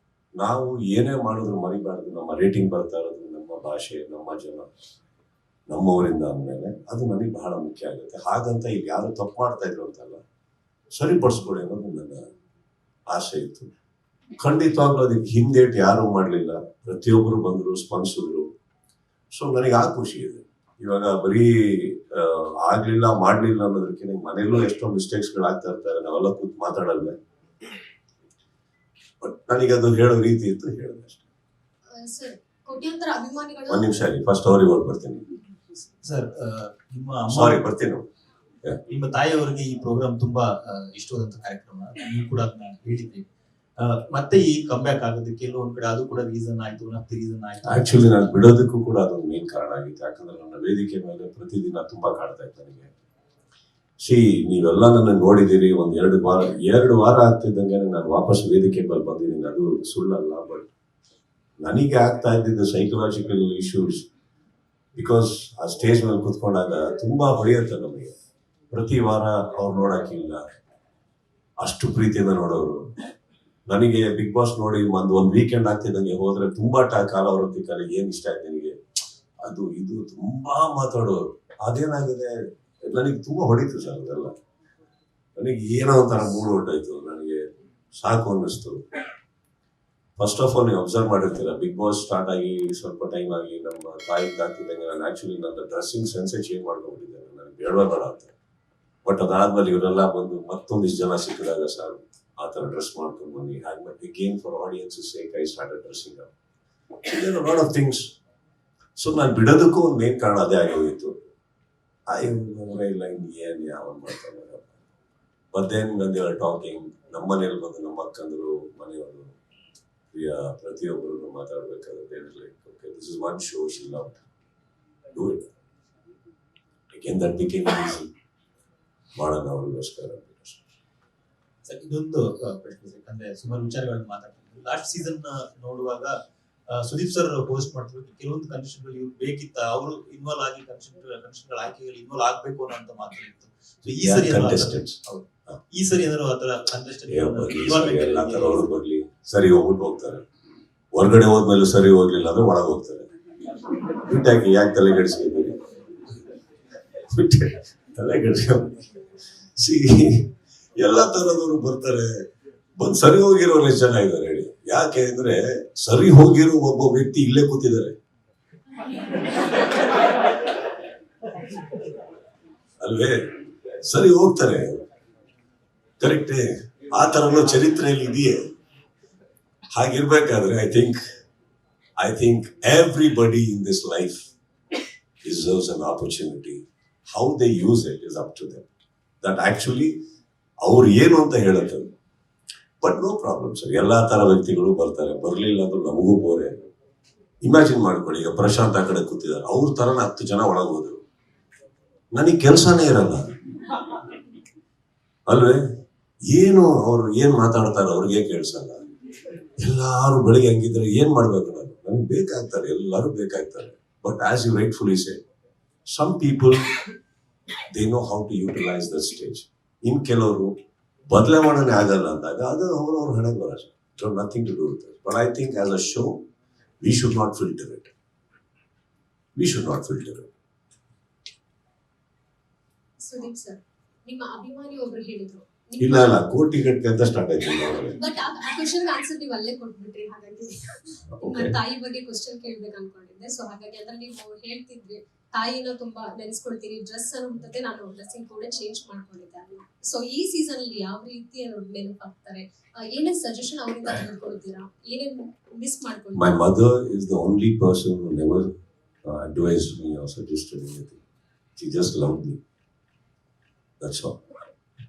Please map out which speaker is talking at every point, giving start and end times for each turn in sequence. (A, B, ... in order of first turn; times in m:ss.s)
0:00.4-0:04.7 A
0:05.7-0:10.2 A
0:11.0-0:12.2 A
0:13.1-0:13.7 A
0:14.4-0:18.5 A
0:19.3-0:27.1 A
0:29.2-0:31.2 A
0:32.0-0:33.9 B
0:33.7-0:35.2 A
0:36.0-0:37.6 C
0:37.3-0:38.0 A
0:38.9-0:43.3 C
0:43.8-0:48.3 C
0:47.7-0:52.9 A
0:54.0-1:00.7 A
1:01.6-1:04.1 A
1:05.0-1:08.1 A
1:08.7-1:10.4 A
1:11.6-1:12.8 A
1:13.7-1:18.7 A
1:19.4-1:24.3 A
1:25.4-1:28.8 A
1:30.2-1:38.3 A
1:39.0-1:46.3 A
1:47.0-1:48.1 A
1:49.0-1:51.1 A
1:52.1-1:54.7 A
1:55.5-1:59.3 A
2:00.1-2:04.2 A
2:05.1-2:05.4 A
2:06.9-2:08.1 A
2:09.2-2:10.6 A
2:11.6-2:16.1 C
2:16.7-2:28.7 C
2:24.0-2:25.0 A
2:27.1-2:30.2 A
2:30.9-2:33.1 A
2:33.9-2:35.6 A
2:37.1-2:38.8 A
2:39.6-2:40.2 A
2:40.8-2:42.2 A
2:42.8-2:48.0 A
2:52.8-2:54.8 A
2:56.0-2:58.4 A
2:59.7-3:01.0 A
3:02.0-3:04.3 A
3:05.2-3:08.6 A
3:09.2-3:09.9 A
3:10.6-3:11.9 A
3:12.8-3:16.6 A
3:17.4-3:21.0 A
3:22.1-3:23.2 A
3:25.3-3:25.6 A
3:26.3-3:28.8 A
3:29.6-3:35.2 A
3:35.9-3:36.6 A
3:37.7-3:40.5 A
3:41.1-3:46.2 A
3:46.8-3:47.9 A
3:49.4-3:50.3 A
3:53.0-3:56.2 B
3:55.8-3:58.0 A
3:58.0-4:16.3 B
4:01.1-4:01.5 A
4:16.1-4:18.5 A
4:19.0-4:21.0 A
4:21.6-4:22.4 A
4:23.8-4:24.2 A